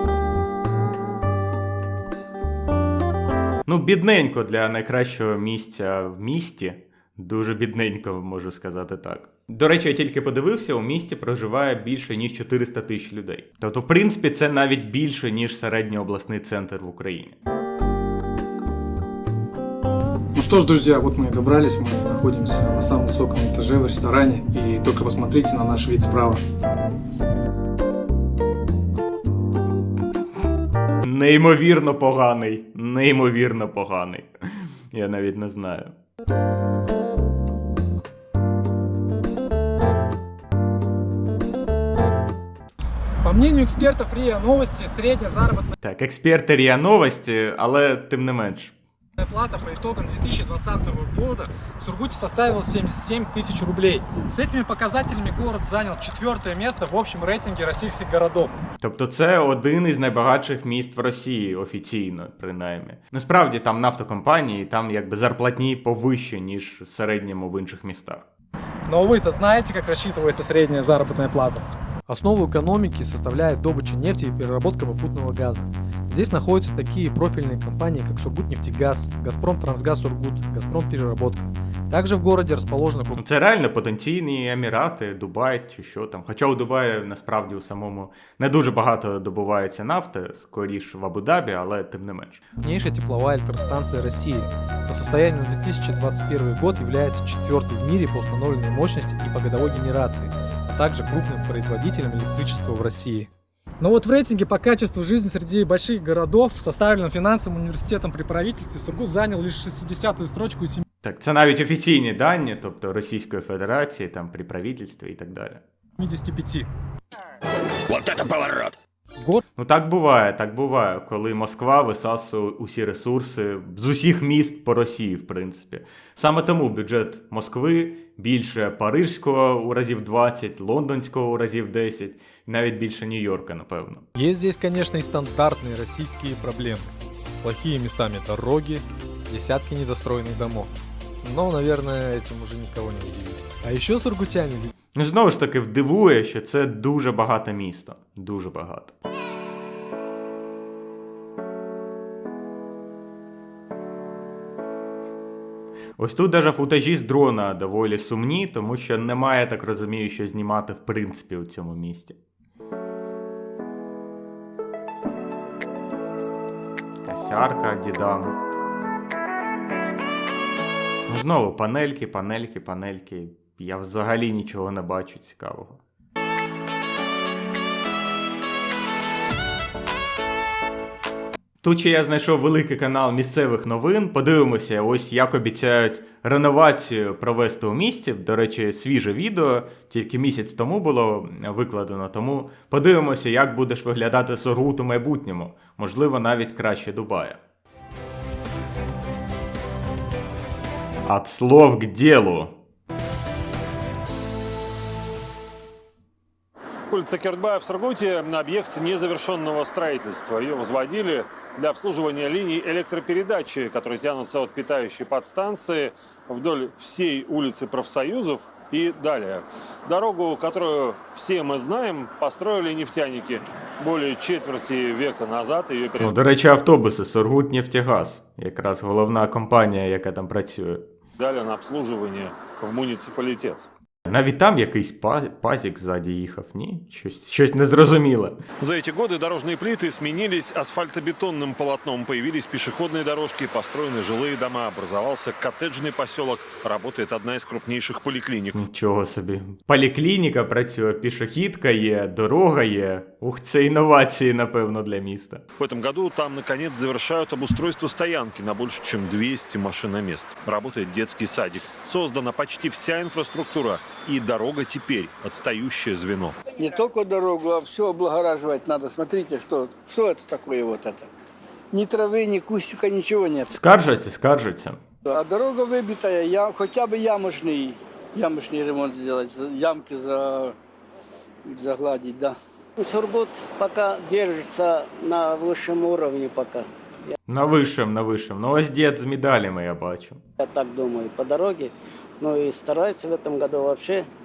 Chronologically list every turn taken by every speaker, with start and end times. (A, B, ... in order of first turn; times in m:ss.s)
0:03.6-0:17.4 A
0:20.3-0:26.4 B
0:31.0-0:35.9 A
0:43.2-0:45.7 B
0:45.8-0:48.7 A
0:49.2-0:58.5 B
0:58.8-1:08.3 A
1:08.9-1:11.7 B
1:12.1-1:23.1 C
1:23.1-1:32.4 A
1:32.6-1:43.3 C
1:43.8-1:50.8 B
1:51.0-1:55.6 A
1:56.0-1:56.7 B
1:59.6-2:14.0 A
2:14.2-2:16.9 C
2:17.4-2:20.7 C
2:21.2-2:24.7 C
2:25.0-2:28.9 A
2:36.0-2:42.2 A
2:47.0-2:48.4 A
2:51.1-2:55.8 A
3:01.6-3:17.4 A
3:21.0-3:22.5 A
3:26.9-3:46.1 D
3:46.0-3:50.8 A
3:51.2-3:53.7 D
3:54.0-3:58.4 A
3:58.6-4:08.6 D
4:08.5-4:15.4 A
4:15.6-4:26.4 D
4:26.5-4:31.1 E
4:31.7-4:33.5 E
4:33.5-4:34.8 A
4:35.0-4:40.6 E
4:41.4-4:42.4 E
4:42.8-4:47.1 F
4:47.3-4:50.2 A
4:50.4-4:54.1 F